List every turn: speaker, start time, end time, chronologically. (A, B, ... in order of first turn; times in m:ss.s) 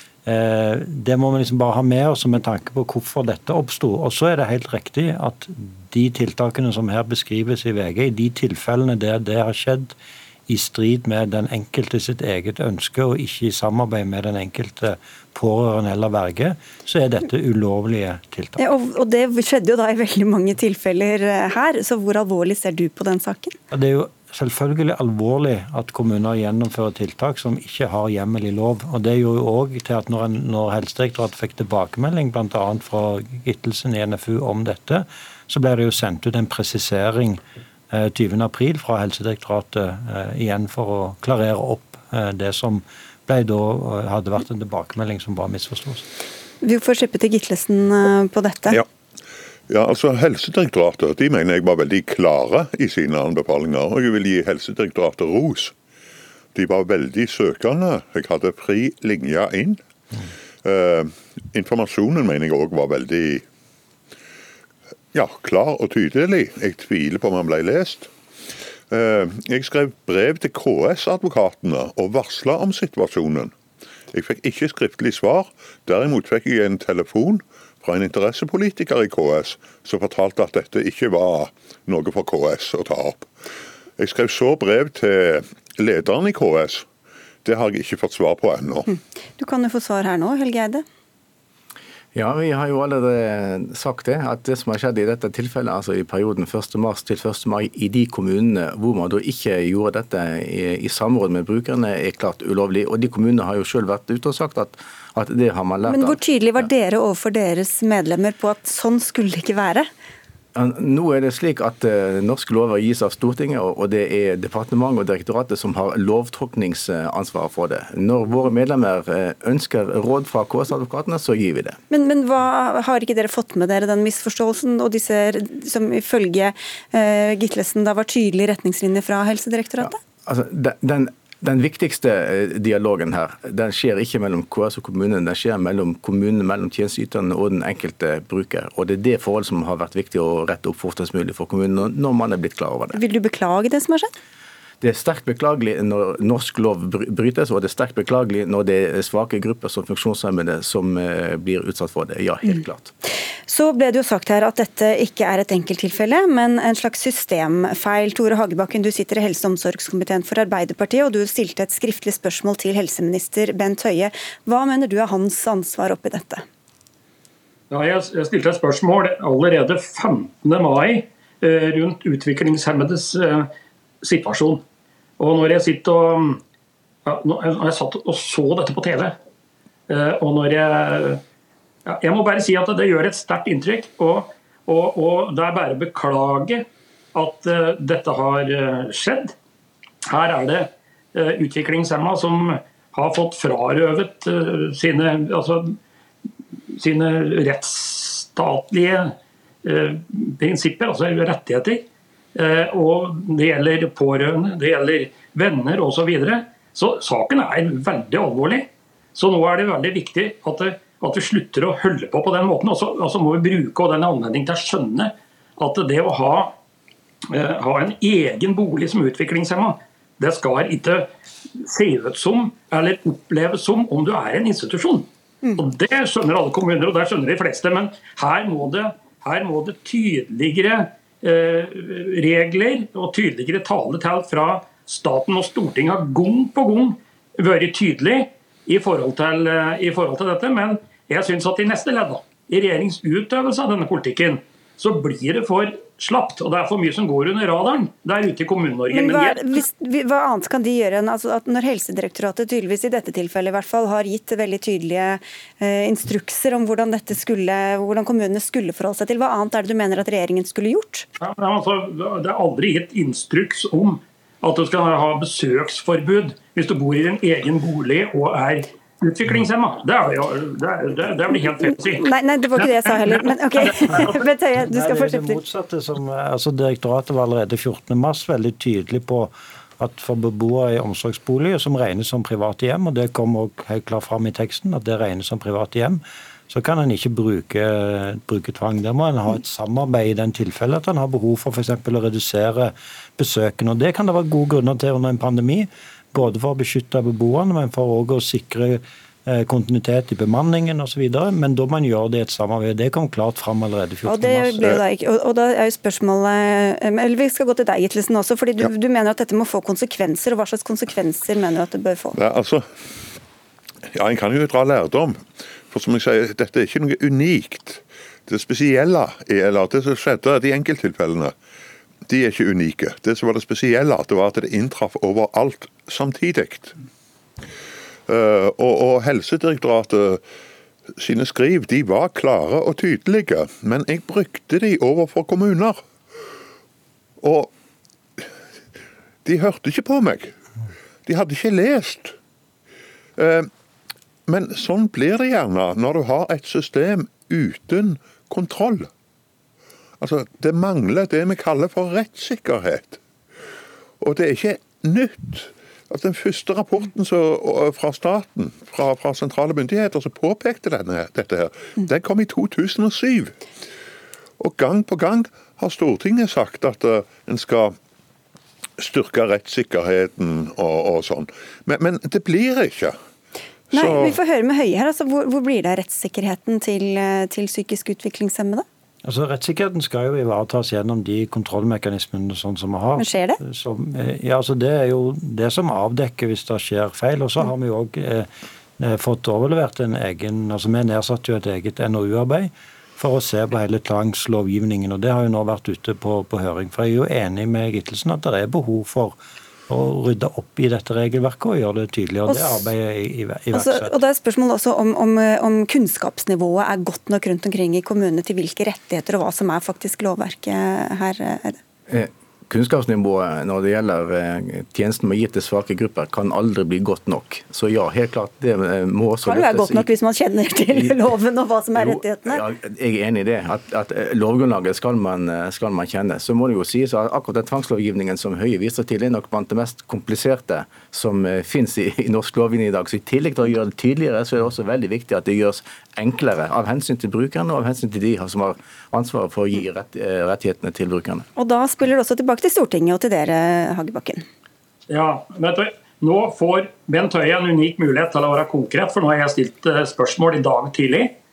0:00.2-0:10.0 A
0:10.5-0:18.6 A
0:18.6-0:23.6 B
0:23.7-0:46.1 A
0:46.6-0:48.8 B
0:49.7-0:55.7 C
0:56.5-0:59.8 C
1:00.6-1:03.4 C
1:05.1-1:08.1 C
1:08.9-1:13.5 C
1:14.1-1:23.3 C
1:24.0-1:26.9 C
1:27.4-1:28.9 C
1:28.9-1:30.8 B
1:32.1-1:46.2 D
1:45.8-1:49.9 B
1:50.5-2:01.8 D
2:01.9-2:10.0 B
2:09.8-2:23.0 D
2:22.9-2:24.1 B
2:24.8-2:32.9 D
2:33.5-2:46.4 B
2:47.7-2:53.5 E
2:54.0-2:54.6 E
2:55.2-2:56.4 E
2:57.0-2:59.1 E
2:59.9-3:01.2 E
3:01.8-3:09.3 E
3:10.1-3:15.8 E
3:16.7-3:21.8 E
3:22.3-3:36.5 E
3:37.3-4:09.4 E
4:08.9-4:21.0 B
4:21.2-4:33.2 E
4:31.9-4:35.4 B
4:34.7-5:04.8 A
5:04.0-5:12.2 B
5:12.2-5:12.7 C
5:13.9-5:21.3 C
5:22.0-5:26.8 C
5:28.1-5:30.2 C
5:30.9-5:35.9 C
5:37.2-5:37.5 C
5:39.2-5:40.4 C
5:41.0-5:42.2 C
5:43.2-5:43.5 C
5:44.3-5:48.9 C
5:50.0-5:53.0 C
5:54.0-6:03.4 C
6:04.4-6:07.8 C
6:08.8-6:13.0 C
6:13.7-6:18.6 B
6:13.7-6:14.2 C
6:19.0-6:39.2 A
6:23.0-6:23.4 B
6:39.7-6:44.0 A
6:42.3-6:42.6 B
6:43.5-6:51.6 B
6:51.9-6:59.9 D
6:59.2-7:02.4 B
7:01.8-7:21.3 D
7:21.4-7:24.2 B
7:24.9-7:31.1 E